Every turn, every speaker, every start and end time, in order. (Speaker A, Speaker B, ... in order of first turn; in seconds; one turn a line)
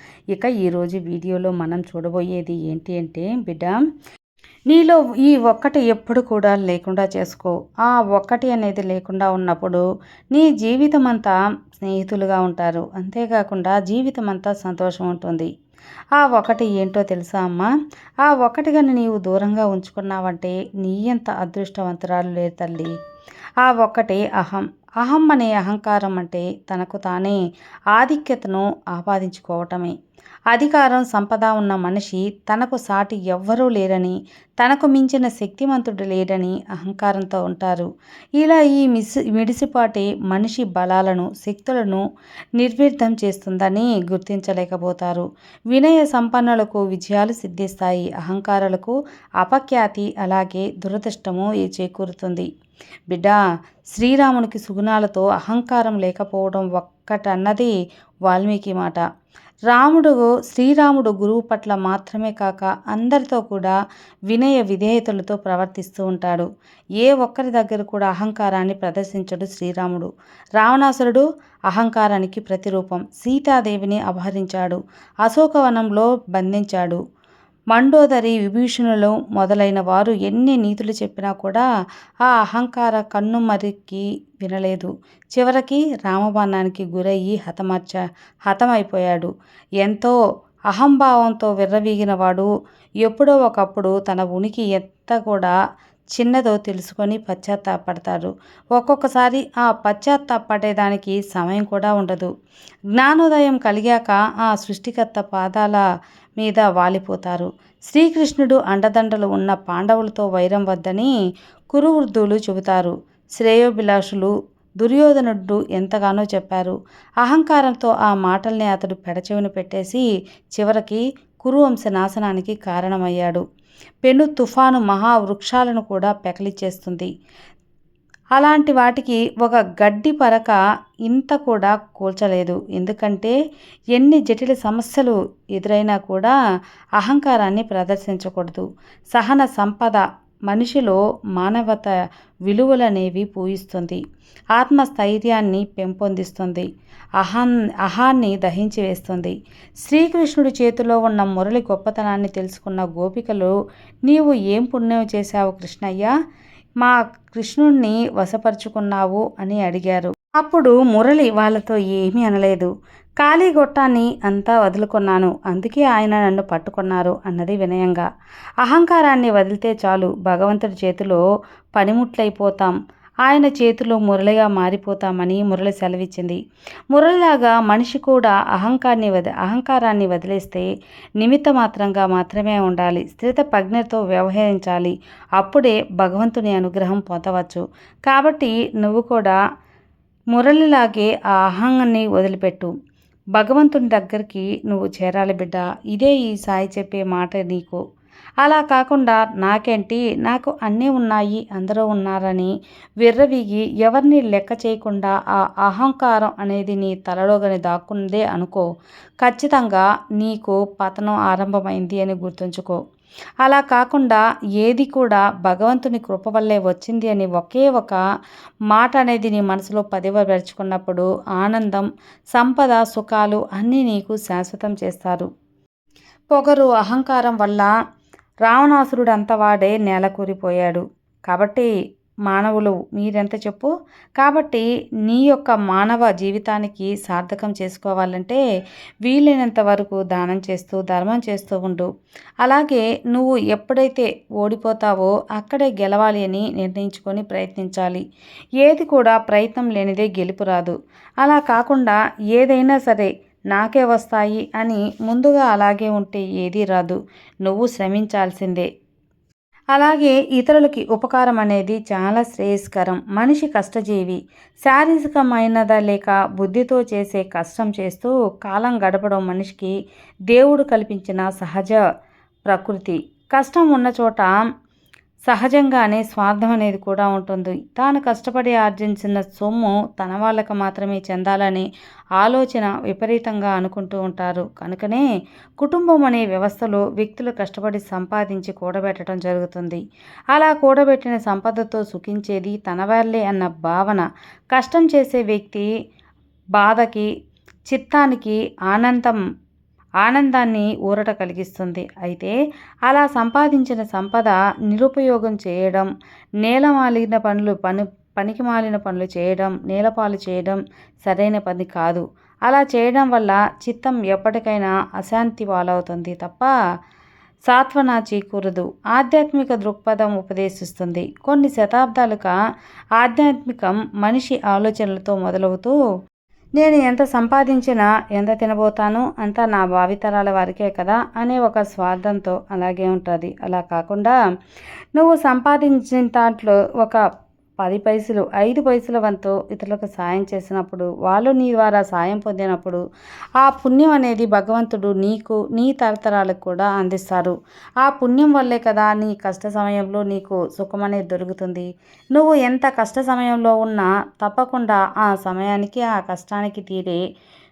Speaker A: 0.3-3.8
Speaker A: 4.7-9.8
Speaker A: 10.3-15.5
Speaker A: 16.2-17.7
Speaker A: 18.2-22.9
Speaker A: 23.6-27.4
Speaker A: 27.9-30.0
Speaker A: 30.5-42.0
Speaker A: 42.6-52.5
Speaker A: 53.1-53.4
Speaker A: 53.9-57.8
Speaker A: 58.3-59.0
Speaker A: 59.7-63.8
Speaker A: 64.3-66.5
Speaker A: 67.0-77.0
Speaker A: 77.7-81.7
Speaker A: 82.3-89.3
Speaker A: 89.8-90.2
Speaker A: 90.7-92.5
Speaker A: 93.0-95.5
Speaker A: 96.2-102.3
Speaker A: 103.0-105.8
Speaker A: 106.4-111.1
Speaker A: 111.7-123.4
Speaker A: 124.0-127.1
Speaker A: 128.4-130.6
Speaker A: 131.1-133.3
Speaker A: 134.0-136.3
Speaker A: 137.0-141.9
Speaker A: 142.5-144.0
Speaker A: 144.6-146.7
Speaker A: 147.2-153.5
Speaker A: 154.1-156.1
Speaker A: 156.8-168.1
Speaker A: 168.6-171.2
Speaker A: 171.8-176.4
Speaker A: 176.9-180.7
Speaker A: 181.2-189.4
Speaker A: 190.3-192.7
Speaker A: 193.4-197.8
Speaker A: 198.4-202.5
Speaker A: 203.0-208.7
Speaker A: 209.2-212.8
Speaker A: 213.4-218.0
Speaker A: 218.7-225.3
Speaker A: 226.3-227.7
Speaker A: 228.5-231.7
Speaker A: 232.3-238.4
Speaker A: 239.1-241.9
Speaker A: 242.4-248.0
Speaker A: 248.6-258.7
Speaker A: 259.7-269.7
Speaker A: 270.3-271.8
Speaker A: 272.5-274.3
Speaker A: 275.3-285.0
Speaker A: 285.6-289.8
Speaker A: 290.3-295.7
Speaker A: 296.6-297.1
Speaker A: 297.7-299.2
Speaker A: 300.0-302.4
Speaker A: 302.9-305.9
Speaker A: 306.4-316.5
Speaker A: 317.5-322.3
Speaker A: 323.0-325.8
Speaker A: 326.6-334.1
Speaker A: 335.0-337.0
Speaker A: 337.6-342.8
Speaker A: 343.4-357.0